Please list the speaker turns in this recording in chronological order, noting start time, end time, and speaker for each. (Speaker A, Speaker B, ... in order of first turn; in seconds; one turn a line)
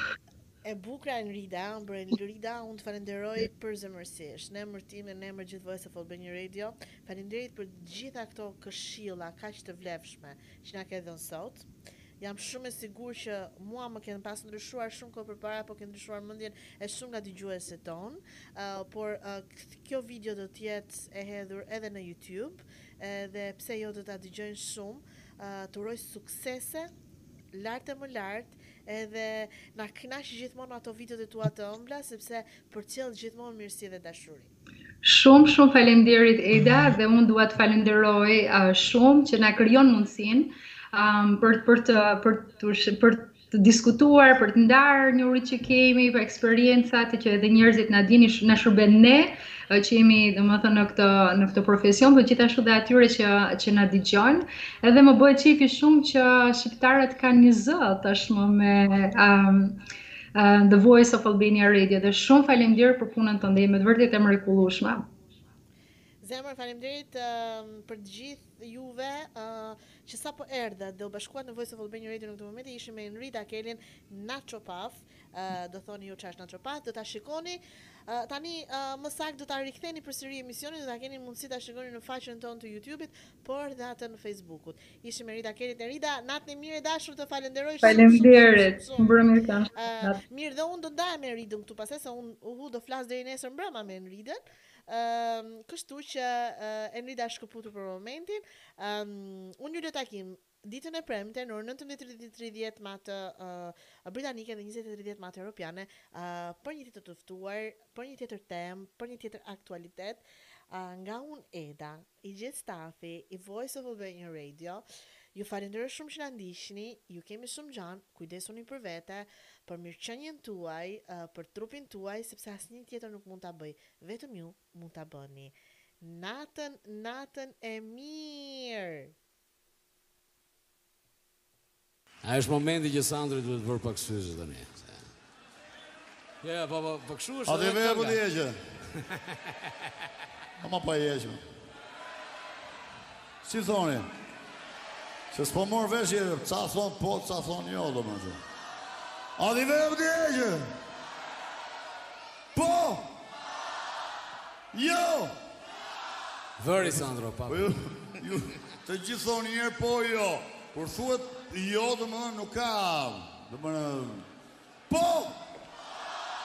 Speaker A: 0.6-11.7
Speaker A: 12.2-26.9
Speaker A: 27.5-34.5
Speaker B: 35.0-59.8
Speaker B: 60.3-65.0
Speaker A: 66.2-129.1
Speaker B: 87.8-90.2
Speaker C: 132.2-135.1
Speaker C: 136.4-138.2
Speaker D: 137.4-138.8
Speaker D: 140.6-141.4
Speaker D: 143.4-144.1
Speaker D: 145.3-148.4
Speaker D: 149.4-150.7
Speaker D: 152.5-153.1
Speaker D: 154.7-155.3
Speaker C: 156.6-157.7
Speaker D: 156.8-164.2
Speaker D: 164.9-165.4